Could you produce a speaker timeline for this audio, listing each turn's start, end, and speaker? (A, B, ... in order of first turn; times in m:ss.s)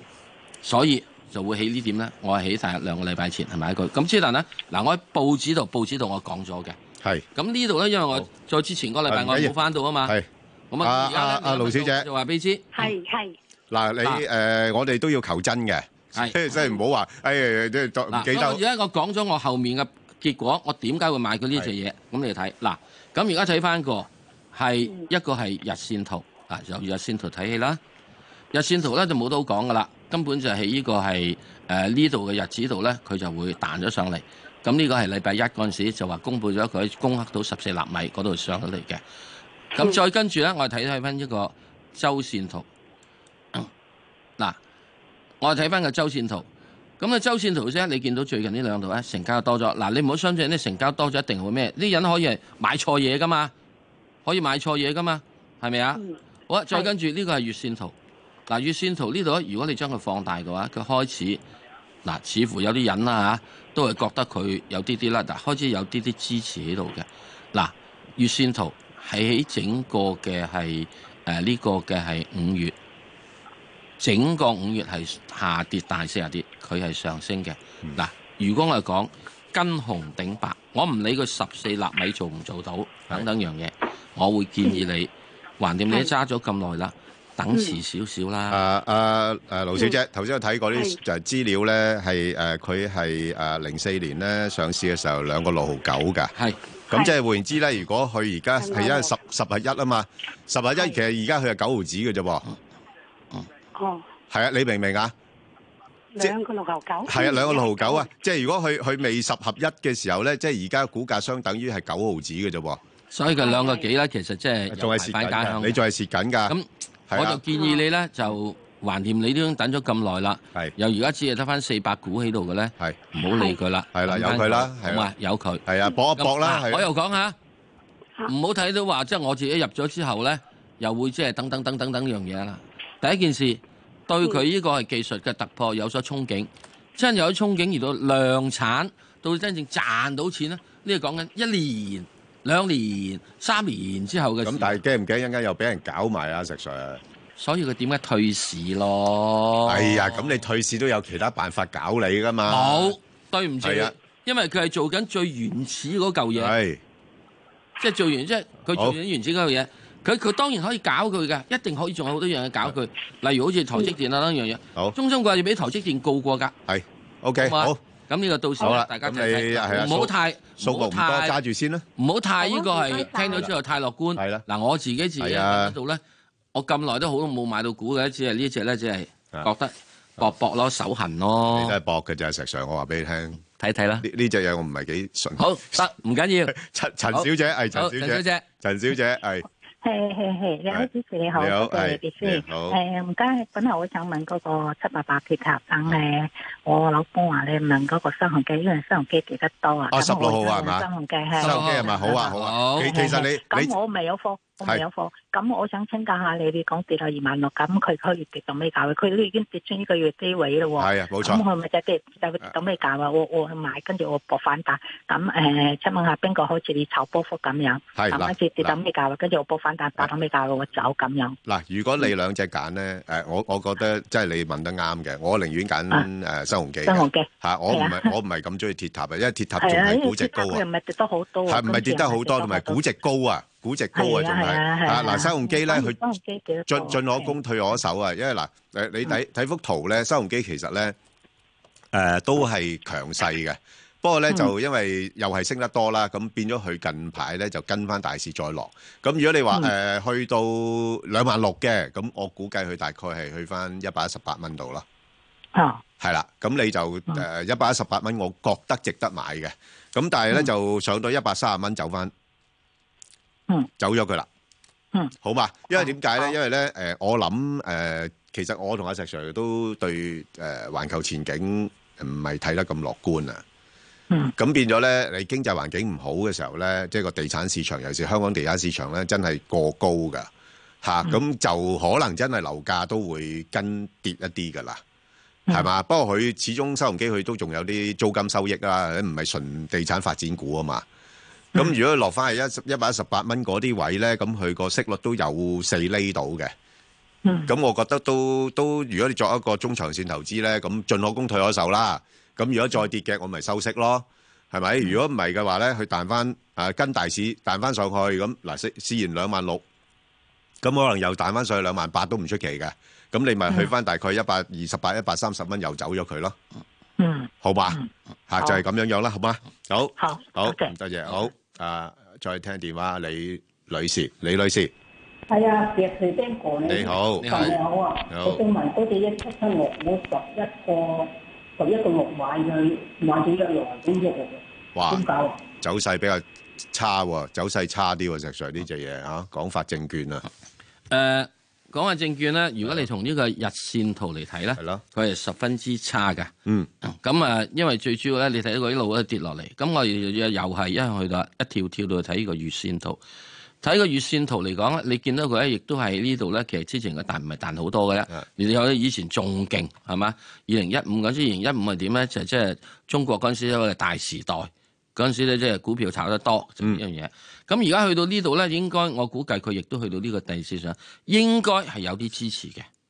0:00.6-0:06.8 A
0:07.0-0:07.2 B
0:07.3-0:10.1 A
0:09.1-0:10.3 B
0:10.7-0:12.9 A
0:10.8-0:12.1 B
0:12.8-0:13.3 C
0:13.7-0:18.6 B
0:16.1-0:16.4 A
0:18.1-0:27.8 A
0:28.5-0:39.0 A
0:39.7-0:42.7 A
0:45.4-0:46.5 A
0:47.0-0:53.5 A
0:54.2-0:57.9 A
0:58.5-1:01.4 A
1:02.0-1:12.7 A
1:14.0-1:28.6 A
1:28.5-1:36.3 B
1:36.9-1:42.5 B
1:38.6-1:39.1 C
1:43.7-1:44.0 C
1:44.3-1:45.1 B
1:46.1-1:48.1 C
1:47.0-1:52.8 B
1:53.1-1:55.8 A
1:53.4-1:53.8 C
1:54.7-1:56.6 B
1:56.5-2:07.4 A
1:57.1-1:57.4 B
1:57.5-1:57.8 C
2:03.9-2:05.1 B
2:05.6-2:06.9 B
2:08.2-2:24.8 A
2:24.4-2:27.0 B
2:27.4-2:30.4 A
2:29.6-2:32.9 B
2:32.4-2:36.5 A
2:33.6-2:33.9 B
2:36.4-2:36.8 B
2:37.8-2:46.5 A
2:38.7-2:39.0 B
2:46.7-2:47.8 B
2:47.4-2:51.4 A
2:48.6-2:51.8 B
2:52.0-2:56.0 A
2:52.4-2:53.4 C
2:54.2-2:54.4 B
2:55.2-2:55.8 B
2:56.5-3:01.7 A
3:01.5-3:03.4 B
3:03.6-3:04.0 A
3:04.0-3:05.9 B
3:05.4-3:06.6 A
3:06.5-3:09.4 B
3:07.1-3:08.4 A
3:09.8-3:41.4 D
3:10.7-3:12.8 B
3:19.9-3:20.8 B
3:21.4-3:23.7 B
3:21.4-3:23.2 A
3:30.8-3:31.4 B
3:38.0-3:38.7 B
3:41.4-3:50.6 B
3:46.8-3:48.1 D
3:49.6-3:52.8 D
3:51.5-3:56.0 B
3:53.9-3:57.3 D
3:56.7-4:00.9 B
4:01.9-4:14.8 B
4:15.5-4:15.8 D
4:16.0-4:22.1 B
4:23.8-4:24.3 B
4:25.2-4:33.4 B
4:25.8-4:26.3 D
4:34.4-4:40.3 B
4:40.8-4:44.8 B
4:45.5-4:50.8 B
4:51.5-4:56.5 B
4:57.2-4:57.5 D
4:57.5-5:09.6 B
5:10.6-5:16.4 B
5:17.0-5:17.9 D
5:17.4-5:24.7 B
5:20.0-5:20.7 D
5:25.3-5:35.4 E
5:26.6-5:27.6 B
5:27.2-5:27.6 A
5:28.1-5:28.4 B
5:34.7-5:35.0 B
5:35.6-5:40.2 B
5:40.9-5:46.3 A
5:44.6-5:44.8 B
5:46.8-5:53.0 A
5:53.6-6:12.7 A